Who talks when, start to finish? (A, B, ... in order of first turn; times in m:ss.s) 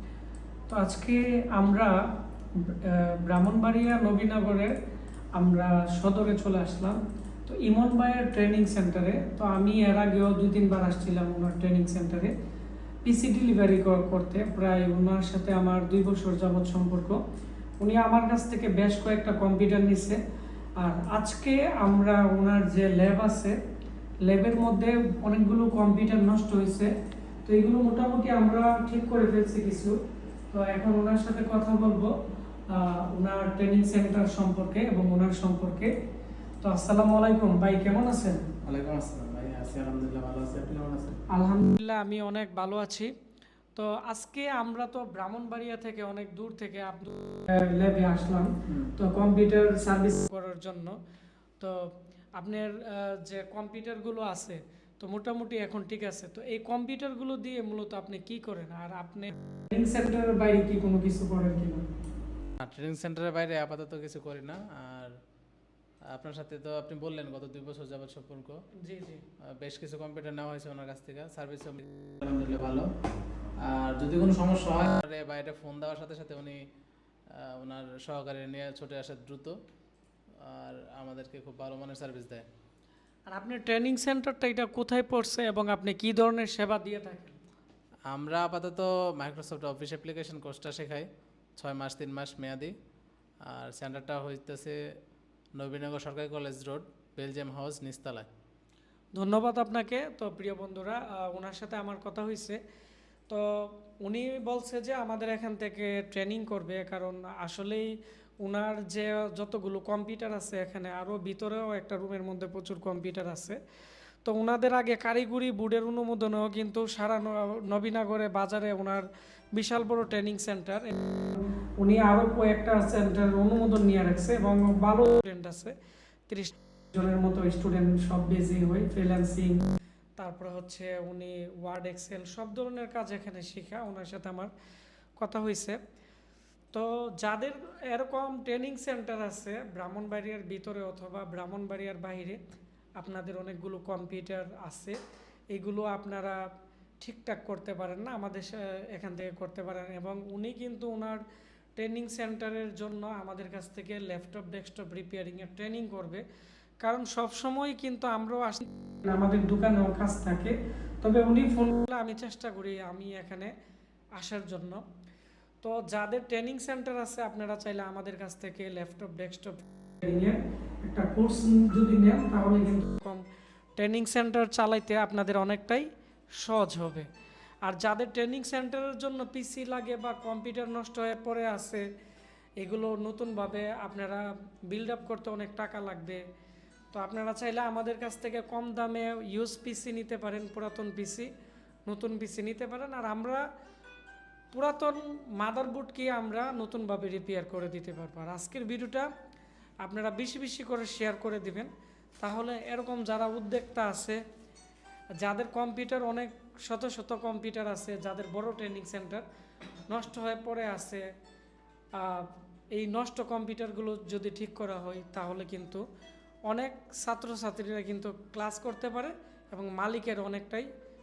0:00.7-0:01.9 A
0:02.6-0:04.7 A
0:05.4-0:12.3 A
0:13.0-0:17.2 A
0:17.8-0:20.2 A
0:20.8-0:23.5 A
0:24.2-0:26.9 A
0:27.4-0:30.0 A
0:30.5-0:32.1 A
0:32.7-0:35.9 A
0:36.6-0:38.4 A
0:38.6-0:41.2 B
0:41.3-0:43.1 A
0:43.8-0:51.0 A
0:51.6-0:51.8 A
0:52.4-1:01.9 A
1:02.6-1:05.1 B
1:06.1-1:08.6 B
1:08.8-1:09.2 A
1:09.6-1:12.9 B
1:13.6-1:16.6 B
1:17.3-1:19.6 B
1:20.4-1:22.5 B
1:23.3-1:27.4 A
1:28.1-1:32.7 B
1:33.4-1:34.8 B
1:35.6-1:38.3 B
1:39.2-1:42.6 A
1:43.3-1:47.9 A
1:48.4-1:53.6 A
1:54.2-2:05.7 A
2:06.3-2:09.6 A
2:10.2-2:14.5 A
2:15.2-2:15.8 A
2:16.7-2:22.4 A
2:23.0-2:25.0 A
2:25.5-2:26.4 A
2:27.0-2:31.2 A
2:31.8-2:36.2 A
2:36.8-2:43.5 A
2:44.2-2:44.8 A
2:45.6-2:53.2 A
2:53.8-2:55.9 A
2:56.4-2:57.1 A
2:57.6-3:01.8 A
3:02.6-3:06.2 A
3:06.9-3:11.3 A
3:11.9-3:13.4 A
3:14.5-3:19.1 A
3:19.8-3:24.2 A
3:25.2-3:29.2 A
3:29.9-3:31.0 A
3:31.9-3:35.8 A
3:36.5-3:40.7 A